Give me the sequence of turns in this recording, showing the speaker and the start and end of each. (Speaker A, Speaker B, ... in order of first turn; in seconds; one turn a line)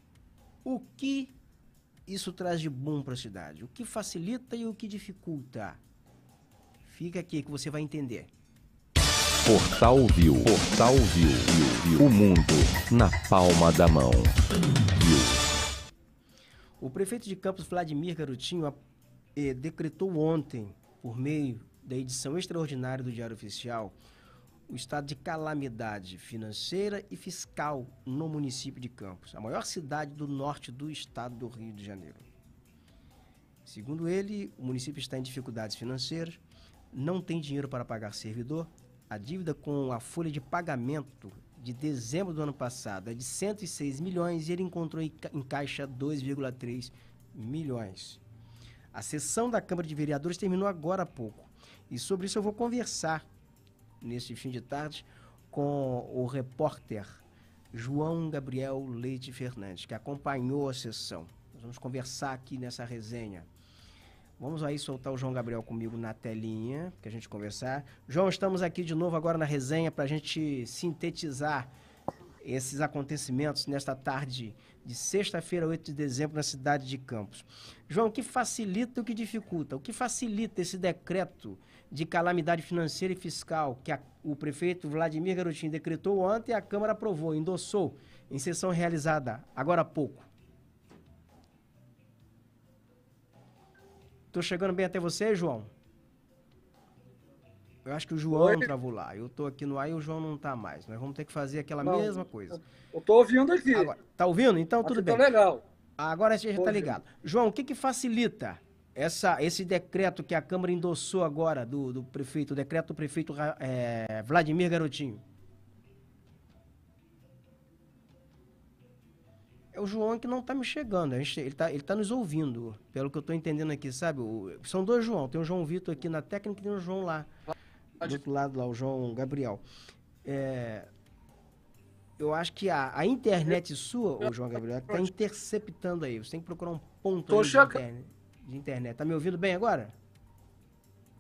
Speaker A: 0.6-1.4
Speaker A: 2.0-5.8
Speaker A: 6.8-8.3
Speaker B: 9.4-14.4
Speaker B: 14.9-15.4
Speaker A: 16.8-18.8
Speaker A: 19.4-23.9
Speaker A: 24.7-32.2
Speaker A: 33.6-36.4
Speaker A: 36.9-48.2
Speaker A: 48.9-53.2
Speaker A: 54.0-63.5
Speaker A: 64.4-71.7
Speaker A: 72.4-90.3
Speaker A: 94.3-95.7
Speaker A: 97.8-102.6
Speaker C: 98.3-98.7
Speaker C: 101.8-103.9
Speaker A: 103.7-105.2
Speaker C: 104.8-105.6
Speaker A: 106.0-115.2
Speaker C: 106.5-106.9
Speaker A: 119.7-127.3
Speaker A: 128.0-129.6
Speaker A: 130.2-130.9
Speaker A: 132.2-139.9
Speaker C: 137.3-137.8